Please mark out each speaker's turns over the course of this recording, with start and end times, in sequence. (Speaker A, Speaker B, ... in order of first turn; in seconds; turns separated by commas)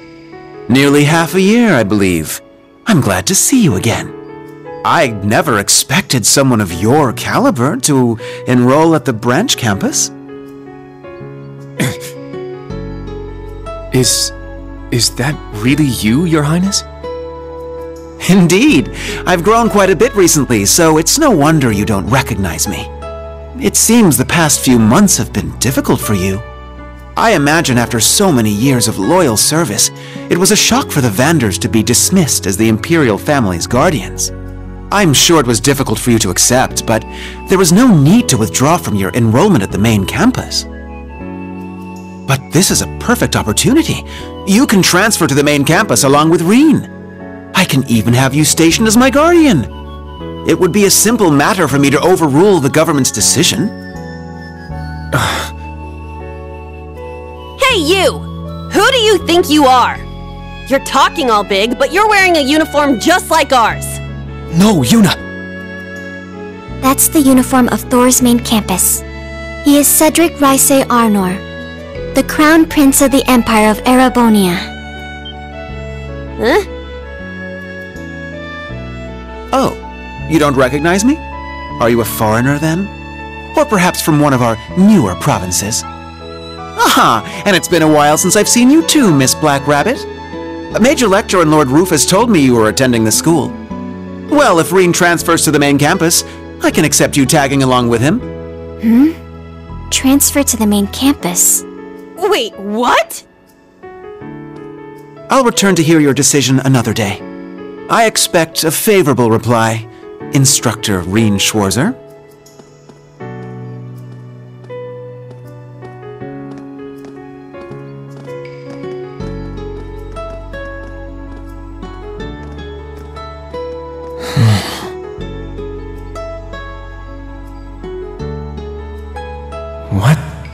Speaker A: 0.7-4.1, Speaker A: 4.8-10.1, Speaker B: 13.9-14.3, Speaker B: 14.9-16.9, Speaker A: 18.2-22.9, Speaker A: 23.6-26.4, Speaker A: 27.2-34.3, Speaker A: 34.9-40.7, Speaker A: 42.3-46.9, Speaker A: 47.5-49.7, Speaker A: 50.5-53.7, Speaker B: 55.2-55.5, Speaker C: 57.6-60.0, Speaker C: 60.7-64.0, Speaker B: 64.5-65.2, Speaker D: 66.8-69.0, Speaker D: 69.6-71.4, Speaker D: 72.1-74.7, Speaker C: 76.4-76.7, Speaker A: 79.5-81.2, Speaker A: 81.8-82.9, Speaker A: 83.5-85.8, Speaker A: 86.8-90.1, Speaker A: 90.8-93.6, Speaker A: 94.3-98.2, Speaker D: 98.8-99.2, Speaker D: 99.9-101.6, Speaker C: 102.2-103.2, Speaker A: 105.3-107.2, Speaker A: 107.9-112.0, Speaker B: 124.3-124.7, Speaker B: 129.9-130.2